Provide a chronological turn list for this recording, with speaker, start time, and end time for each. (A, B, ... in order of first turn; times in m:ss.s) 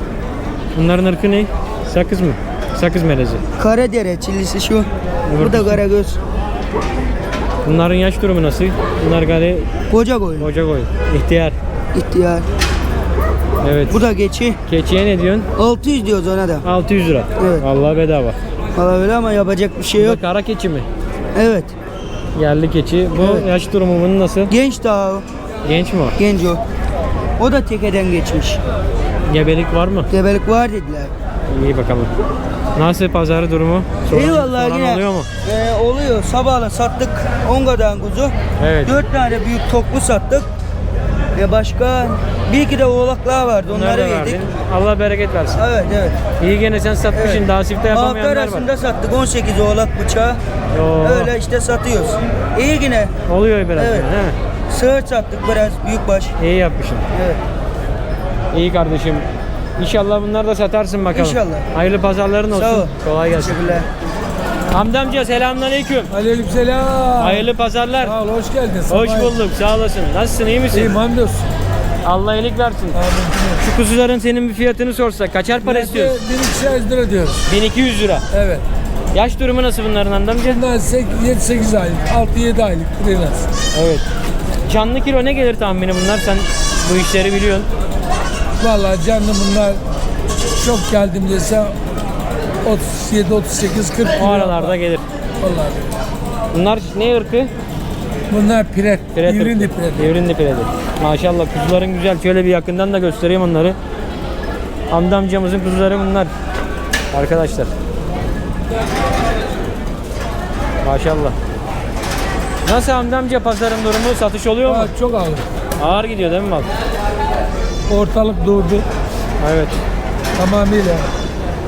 0:00.7-0:03.4 A
0:03.6-0:06.2 B
0:05.3-0:05.8 A
0:07.6-0:09.6 A
0:09.9-0:10.5 B
0:10.4-0:11.6 A
0:11.9-0:12.4 B
0:13.6-0:14.0 A
0:13.9-0:14.6 B
0:14.6-0:15.5 A
0:15.6-0:16.6 B
0:16.6-0:18.4 A
0:17.4-0:17.6 B
0:18.7-0:20.2 B
0:20.0-0:20.9 A
0:21.3-0:21.7 B
0:22.3-0:24.5 A
0:23.2-0:23.4 B
0:24.5-0:25.2 B
0:25.6-0:26.2 A
0:26.2-0:26.6 B
0:27.4-0:28.6 B
0:29.3-0:30.1 A
0:30.1-0:31.1 B
0:31.5-0:32.1 A
0:32.7-0:35.3 A
0:34.1-0:38.3 B
0:38.6-0:39.0 A
0:38.8-0:40.5 B
0:41.3-0:44.5 B
0:43.7-0:45.6 A
0:45.5-0:46.2 B
0:46.4-0:48.6 A
0:47.1-0:50.4 B
0:50.7-0:51.3 A
0:51.0-0:53.1 B
0:53.3-0:54.3 A
0:53.8-0:54.1 B
0:54.7-0:56.4 B
0:56.4-0:57.0 A
0:57.1-0:57.4 B
0:58.5-0:59.2 A
0:59.8-1:03.7 A
1:01.1-1:01.7 B
1:02.5-1:03.9 B
1:04.7-1:06.1 A
1:06.1-1:07.5 C
1:07.2-1:08.2 A
1:08.0-1:09.3 C
1:08.9-1:11.0 A
1:10.7-1:11.4 C
1:12.0-1:13.0 A
1:12.9-1:13.6 C
1:13.6-1:16.1 A
1:15.6-1:17.4 C
1:17.5-1:18.2 A
1:18.3-1:18.6 C
1:19.1-1:20.6 A
1:20.4-1:23.5 C
1:23.7-1:24.0 A
1:24.6-1:27.7 A
1:28.6-1:29.8 C
1:30.6-1:31.7 C
1:32.6-1:34.8 C
1:34.2-1:35.0 A
1:35.4-1:35.8 C
1:36.5-1:37.5 A
1:38.3-1:40.1 C
1:39.1-1:43.8 A
1:44.9-1:46.3 A
1:47.1-1:47.7 A
1:50.8-1:51.4 A
1:52.6-1:54.9 A
1:54.6-1:55.4 C
1:55.8-1:56.7 A
1:57.9-1:58.8 C
1:59.4-1:59.8 A
2:00.4-2:01.1 C